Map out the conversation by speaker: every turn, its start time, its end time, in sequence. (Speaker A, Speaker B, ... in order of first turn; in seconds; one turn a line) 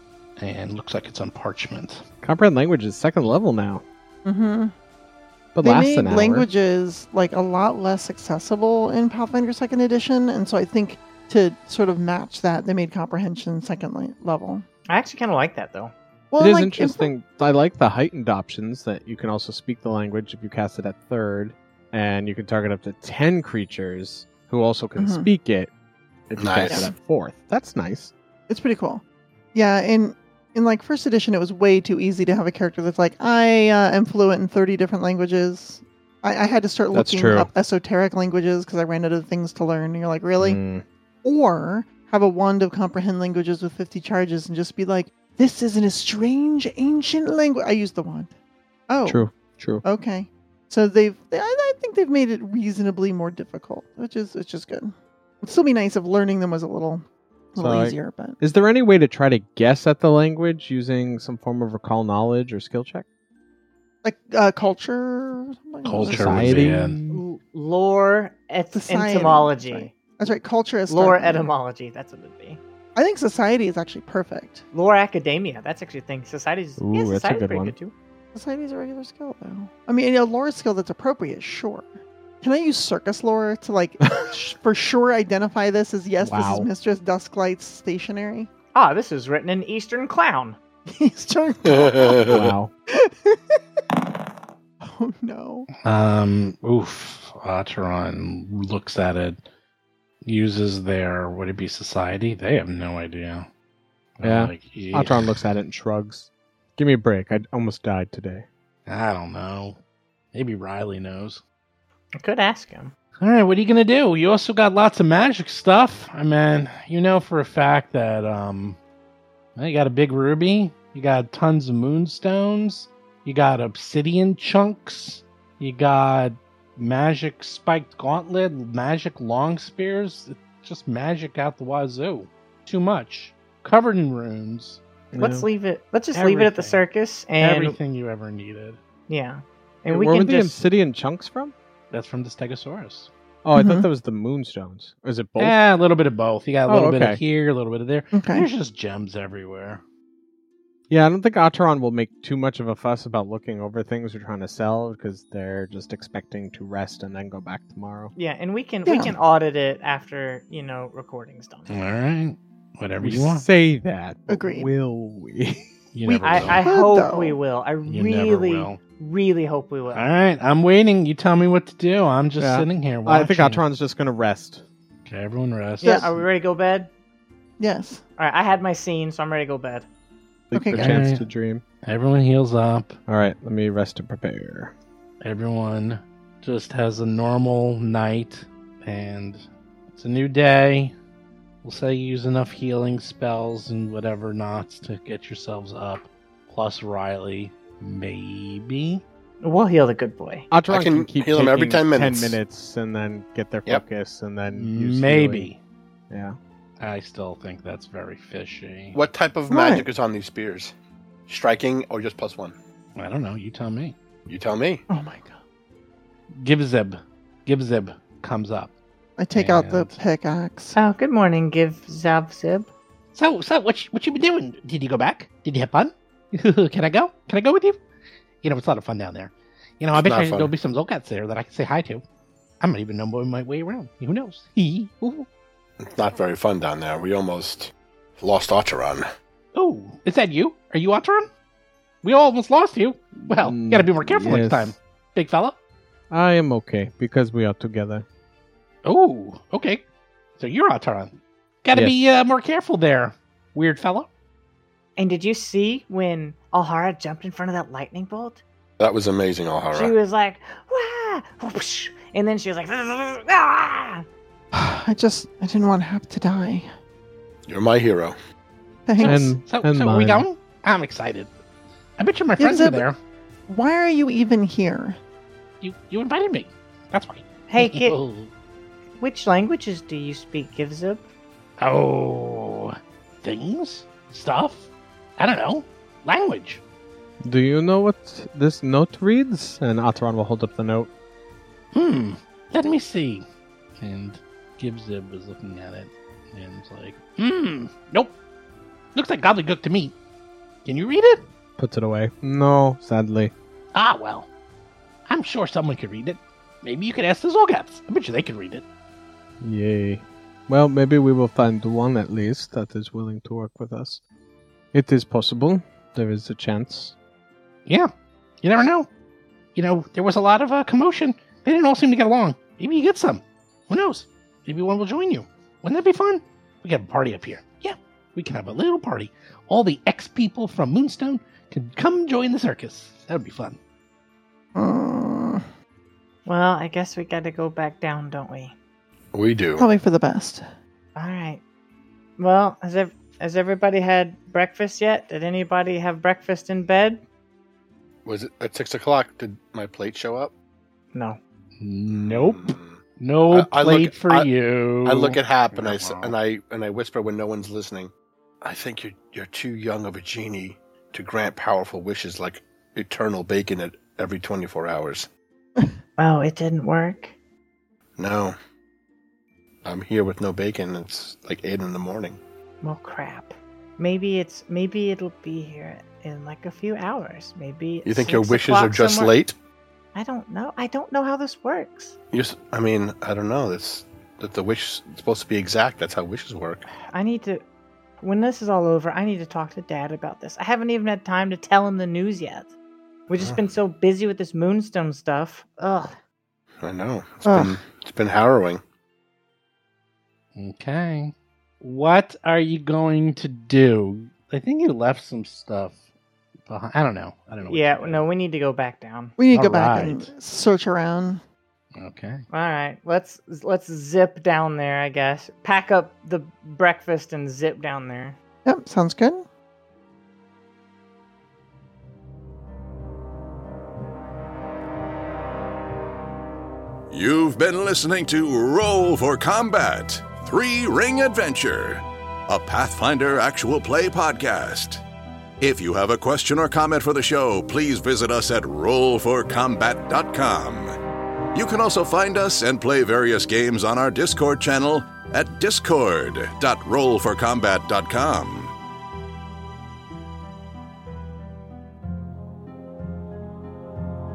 Speaker A: 0.4-2.0
Speaker B: 2.2-3.8
Speaker C: 4.2-4.7
Speaker B: 5.5-6.5
Speaker C: 5.6-14.7
Speaker D: 14.9-15.9
Speaker C: 16.3-17.1
Speaker B: 16.4-25.7
Speaker C: 25.0-25.3
Speaker B: 26.3-28.1
Speaker E: 26.3-26.9
Speaker C: 28.5-29.0
Speaker C: 29.5-40.6
Speaker B: 36.9-37.5
Speaker B: 40.4-40.8
Speaker C: 41.2-48.3
Speaker C: 48.9-49.3
Speaker B: 49.0-49.8
Speaker C: 49.8-58.4
Speaker B: 57.6-63.0
Speaker C: 64.0-66.7
Speaker A: 65.8-67.0
Speaker B: 66.0-67.2
Speaker D: 67.1-69.9
Speaker C: 68.7-71.5
Speaker D: 70.9-72.6
Speaker C: 72.9-74.6
Speaker D: 74.7-77.9
Speaker B: 76.8-77.7
Speaker C: 78.3-88.5
Speaker B: 86.2-86.7
Speaker D: 88.7-90.6
Speaker C: 90.9-92.3
Speaker E: 91.6-92.5
Speaker B: 92.3-92.7
Speaker C: 93.0-93.6
Speaker C: 94.8-95.7
Speaker A: 95.8-99.4
Speaker A: 100.2-103.5
Speaker A: 104.2-105.3
Speaker B: 104.2-108.5
Speaker A: 108.8-109.8
Speaker A: 110.3-111.4
Speaker D: 112.2-112.9
Speaker A: 113.2-118.8
Speaker A: 119.5-134.8
Speaker B: 135.1-135.5
Speaker D: 135.2-137.8
Speaker A: 136.1-136.8
Speaker A: 137.4-138.8
Speaker D: 139.1-140.6
Speaker B: 139.9-141.5
Speaker A: 141.9-143.1
Speaker B: 143.4-145.6
Speaker C: 143.5-143.8
Speaker A: 145.4-149.8
Speaker B: 146.7-147.2
Speaker C: 148.1-148.5
Speaker B: 150.9-158.1
Speaker D: 158.1-161.7
Speaker C: 158.8-159.1
Speaker A: 161.7-163.4
Speaker B: 163.0-165.6
Speaker C: 164.3-164.7
Speaker A: 165.9-166.6
Speaker C: 166.1-167.4
Speaker D: 166.2-170.1
Speaker A: 167.9-168.8
Speaker A: 169.9-173.6
Speaker B: 172.4-174.6
Speaker A: 175.1-176.2
Speaker D: 175.8-176.9
Speaker C: 175.8-176.1
Speaker C: 177.6-178.0
Speaker D: 178.2-179.9
Speaker B: 180.5-181.6
Speaker C: 180.5-181.0
Speaker A: 180.7-181.2
Speaker A: 181.8-183.0
Speaker B: 183.1-184.7
Speaker A: 185.2-190.9
Speaker A: 191.6-199.0
Speaker D: 199.4-200.5
Speaker B: 200.5-205.5
Speaker E: 200.7-202.4
Speaker A: 204.5-205.6
Speaker B: 206.1-206.4
Speaker A: 206.8-209.0
Speaker E: 208.9-210.7
Speaker C: 209.5-209.9
Speaker E: 211.3-212.6
Speaker A: 212.9-213.9
Speaker E: 214.3-214.8
Speaker C: 214.9-215.4
Speaker A: 216.3-218.7
Speaker C: 219.2-220.8
Speaker A: 219.3-220.0
Speaker D: 220.7-222.7
Speaker A: 223.1-227.8
Speaker A: 228.4-232.0
Speaker E: 229.9-230.5
Speaker A: 232.6-235.3
Speaker E: 235.8-239.1
Speaker A: 239.5-241.3
Speaker A: 242.0-245.6
Speaker B: 243.3-244.7
Speaker B: 246.1-248.1
Speaker A: 248.8-249.8
Speaker A: 250.4-254.1
Speaker D: 255.0-258.4
Speaker E: 258.8-259.9
Speaker D: 259.7-264.0
Speaker C: 264.5-266.7
Speaker E: 267.5-268.1
Speaker C: 268.9-269.3
Speaker A: 269.0-271.3
Speaker B: 269.0-270.2
Speaker A: 272.0-273.0
Speaker C: 272.4-272.9
Speaker C: 273.5-275.0
Speaker A: 275.6-278.3
Speaker D: 277.5-278.0
Speaker D: 279.0-281.1
Speaker A: 281.6-286.6
Speaker B: 287.2-290.9
Speaker A: 291.7-293.3
Speaker A: 293.8-298.1
Speaker A: 298.9-299.9
Speaker A: 300.6-301.3
Speaker B: 301.6-303.3
Speaker A: 303.7-304.3
Speaker A: 305.1-308.6
Speaker B: 309.4-314.0
Speaker B: 314.7-316.9
Speaker A: 318.4-318.9
Speaker A: 319.5-333.6
Speaker C: 334.5-335.4
Speaker D: 336.2-338.5
Speaker E: 339.1-339.7
Speaker C: 339.6-340.4
Speaker D: 340.9-341.4
Speaker D: 342.2-347.0
Speaker E: 348.0-350.3
Speaker D: 350.9-351.2
Speaker A: 351.6-356.1
Speaker E: 352.0-354.3
Speaker E: 354.8-365.1
Speaker D: 366.0-367.1
Speaker E: 368.0-368.4
Speaker E: 369.6-372.2
Speaker D: 372.6-379.1
Speaker E: 377.8-379.3
Speaker D: 379.9-381.9
Speaker E: 382.1-386.6
Speaker D: 386.8-387.4
Speaker D: 388.0-392.5
Speaker D: 393.1-395.9
Speaker E: 396.6-398.6
Speaker C: 397.3-397.5
Speaker A: 400.3-405.8
Speaker A: 406.4-408.0
Speaker D: 407.4-409.2
Speaker C: 409.2-411.2
Speaker A: 409.3-410.1
Speaker A: 411.7-412.2
Speaker D: 412.3-418.2
Speaker C: 418.4-419.2
Speaker F: 426.9-434.8
Speaker F: 435.4-440.8
Speaker F: 441.3-448.5